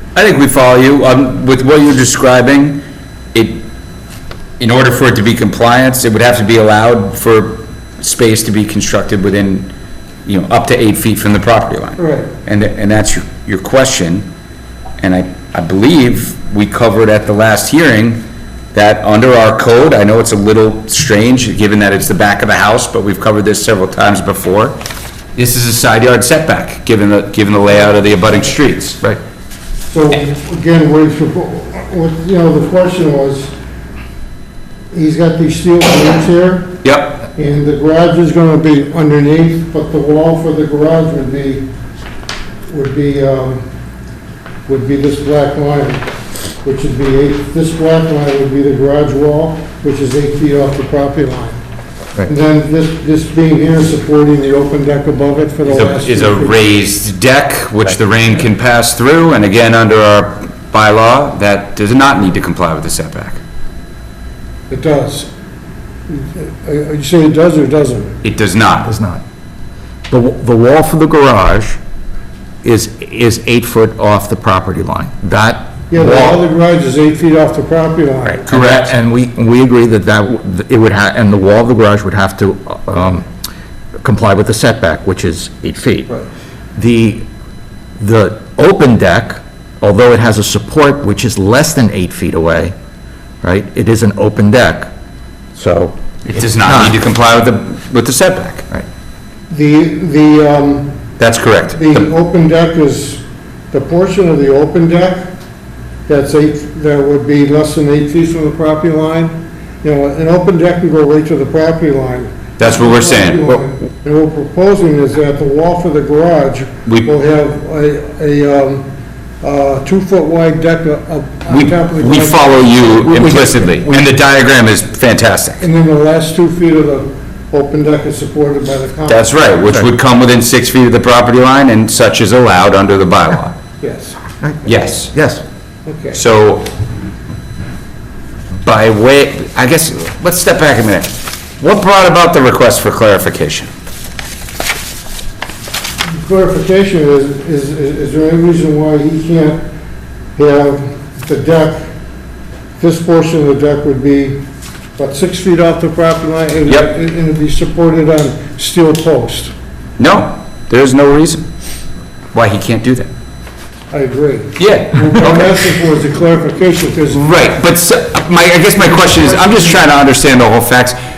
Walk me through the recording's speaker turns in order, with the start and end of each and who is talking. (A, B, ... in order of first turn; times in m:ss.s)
0:00.2-0:02.8 A
0:03.3-0:03.6 A
0:04.6-0:09.7 A
0:10.3-0:14.3 A
0:12.0-0:12.3 B
0:15.0-0:24.8 A
0:25.4-0:29.1 A
0:29.9-0:33.5 B
0:34.9-0:36.8 B
0:36.8-0:37.2 A
0:37.3-0:41.7 B
0:42.7-0:43.7 B
0:44.7-0:46.1 B
0:46.6-0:51.6 B
0:52.2-0:56.6 B
0:55.7-1:03.4 A
1:04.7-1:05.3 B
1:06.1-1:08.2 B
1:08.2-1:08.9 A
1:08.8-1:09.2 C
1:10.1-1:11.8 C
1:12.6-1:16.4 C
1:15.9-1:18.5 B
1:18.3-1:23.3 C
1:18.5-1:18.9 A
1:24.0-1:26.1 C
1:26.8-1:27.3 C
1:28.0-1:32.8 C
1:33.4-1:34.9 C
1:35.6-1:37.0 C
1:36.2-1:38.7 A
1:39.5-1:41.0 B
1:41.2-1:42.1 A
1:41.7-1:45.3 B
1:46.1-1:58.9 B
1:52.6-1:53.6 A
1:59.4-2:04.0 B
2:01.5-2:05.6 A
2:05.6-2:09.4 B
2:09.1-2:13.6 A
2:13.8-2:14.2 B
2:14.4-2:15.4 C
2:14.6-2:15.1 A
2:15.9-2:16.2 B
2:16.1-2:16.7 A
2:18.6-2:23.7 A
2:26.1-2:29.7 B
2:30.4-2:31.9 B
2:32.8-2:34.4 B
2:35.0-2:39.5 B
2:40.0-2:41.4 A
2:42.3-2:43.1 A
2:43.9-2:47.3 B
2:44.6-2:45.6 A
2:47.2-2:51.0 A
2:49.0-2:49.8 B